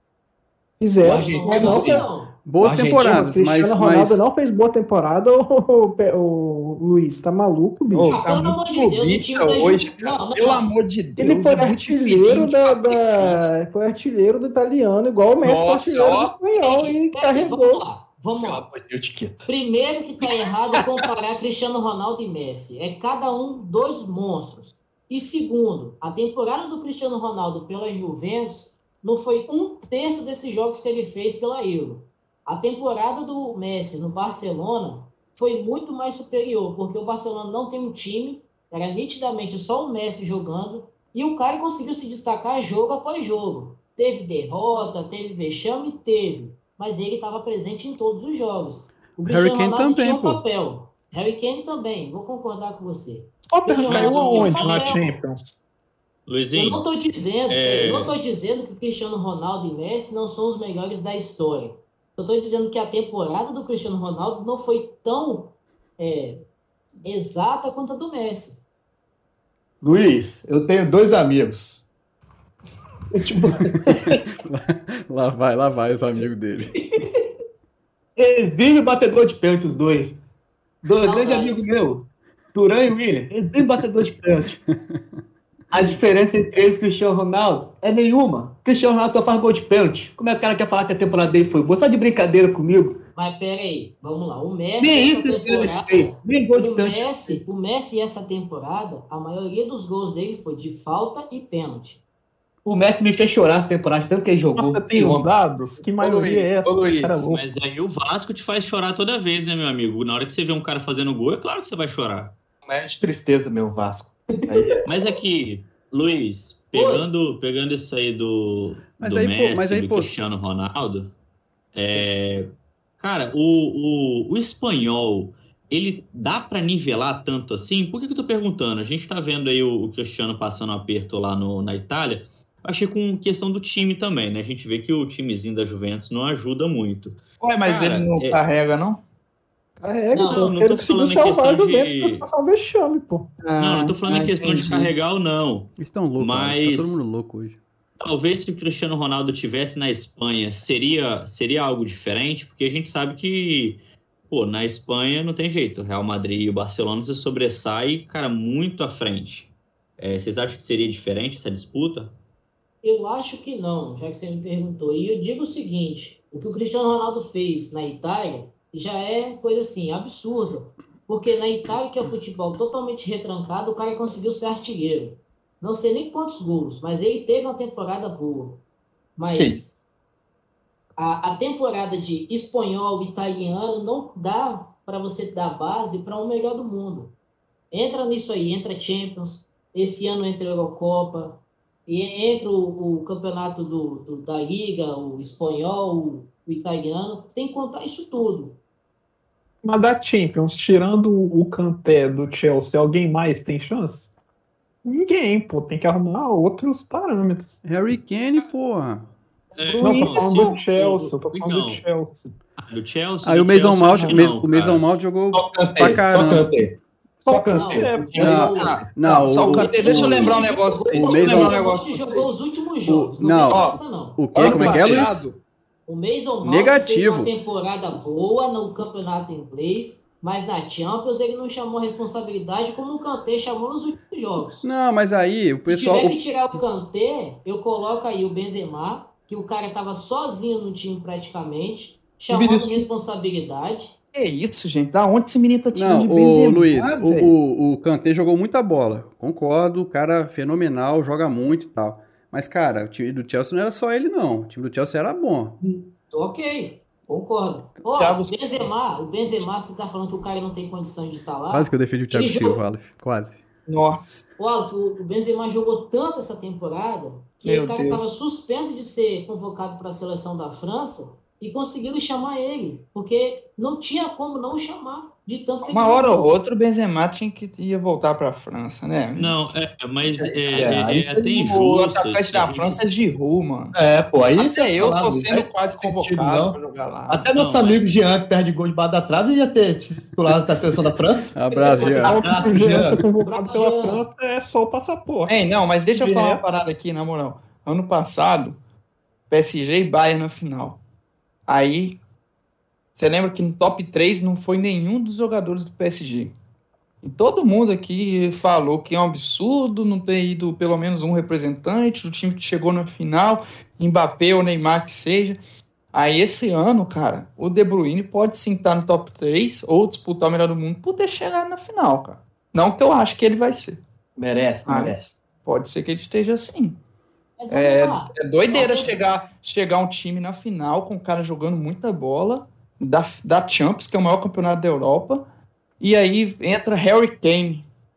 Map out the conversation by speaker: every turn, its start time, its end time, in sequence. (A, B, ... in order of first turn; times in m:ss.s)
0:00.8-0:02.0 A
0:01.0-0:02.1 B
0:01.0-0:02.4 C
0:02.4-0:04.2 D
0:02.6-0:03.3 B
0:03.0-0:08.1 A
0:07.9-0:13.5 E
0:08.1-0:10.6 C
0:11.2-0:17.8 A
0:15.4-0:16.3 E
0:16.5-0:18.6 C
0:18.3-0:19.5 B
0:19.4-0:55.1 C
0:49.2-0:50.4 D
0:53.5-0:55.6 F
0:53.9-0:54.8 G
0:56.2-0:56.8 G
0:56.5-1:06.4 C
0:57.5-0:58.1 G
1:07.0-1:08.6 C
1:09.8-1:11.8 B
1:13.1-1:14.1 B
1:14.4-1:16.8 D
1:18.2-1:20.2 B
1:20.8-1:24.6 B
1:21.0-1:21.7 C
1:25.7-1:33.0 B
1:33.2-1:42.0 C
1:34.8-1:37.4 B
1:42.6-1:45.3 B
1:44.5-1:47.4 F
1:45.9-1:47.2 E
1:47.2-1:52.3 G
1:52.6-1:54.8 B
1:54.8-2:01.1 G
1:56.7-1:57.0 C
1:59.0-2:00.1 D
2:01.7-2:02.5 G
2:03.0-2:18.4 G
2:17.4-2:19.0 E
2:19.8-2:23.3 A
2:20.1-2:20.5 C
2:20.2-2:22.2 G
2:23.4-2:24.9 E
2:23.6-2:27.0 G
2:25.8-2:27.6 D
2:28.0-2:42.1 G
2:42.8-2:58.6 C
2:59.2-2:59.8 C
3:01.0-3:07.1 C
3:07.7-3:18.6 C
3:19.6-3:24.1 F
3:24.8-3:27.6 F
3:27.6-3:29.1 D
3:29.5-3:31.8 G
3:29.6-3:30.4 C
3:29.8-3:32.4 F
3:32.6-3:34.8 G
3:33.2-3:36.5 D
3:35.3-3:36.8 B
3:37.2-3:38.3 F
3:37.2-3:38.4 B
3:37.5-3:38.8 C
3:38.2-3:41.6 D
3:38.3-3:42.3 E
3:39.3-3:45.0 C
3:42.9-3:45.3 D
3:43.5-3:43.8 E
3:44.3-3:45.4 E
3:45.8-3:54.6 C
3:46.4-3:47.3 D
3:54.6-3:56.2 D
3:55.6-4:03.9 C
4:02.3-4:02.8 E
4:04.1-4:07.4 E
4:05.7-4:15.6 D
4:15.6-4:22.6 C
4:17.9-4:18.7 E
4:21.5-4:23.4 D
4:23.7-4:24.2 E
4:24.4-4:36.3 C
4:27.4-4:28.0 E
4:35.6-4:39.4 E
4:39.2-4:42.9 G
4:40.5-4:41.5 B
4:41.4-4:43.8 E
4:43.7-4:53.0 B
4:44.4-4:47.2 E
4:47.3-4:47.9 G
4:51.3-4:52.3 D
4:51.7-4:56.6 F
4:51.8-4:52.2 C
4:53.2-4:54.1 C
4:55.3-4:58.6 E
4:59.3-5:00.8 E
5:01.5-5:02.0 E
5:02.9-5:06.3 E
5:07.0-5:15.4 E
5:15.9-5:23.8 E
5:24.2-5:25.0 B
5:24.6-5:26.8 E
5:27.4-5:29.0 C
5:27.5-5:35.2 E
5:35.8-5:37.6 E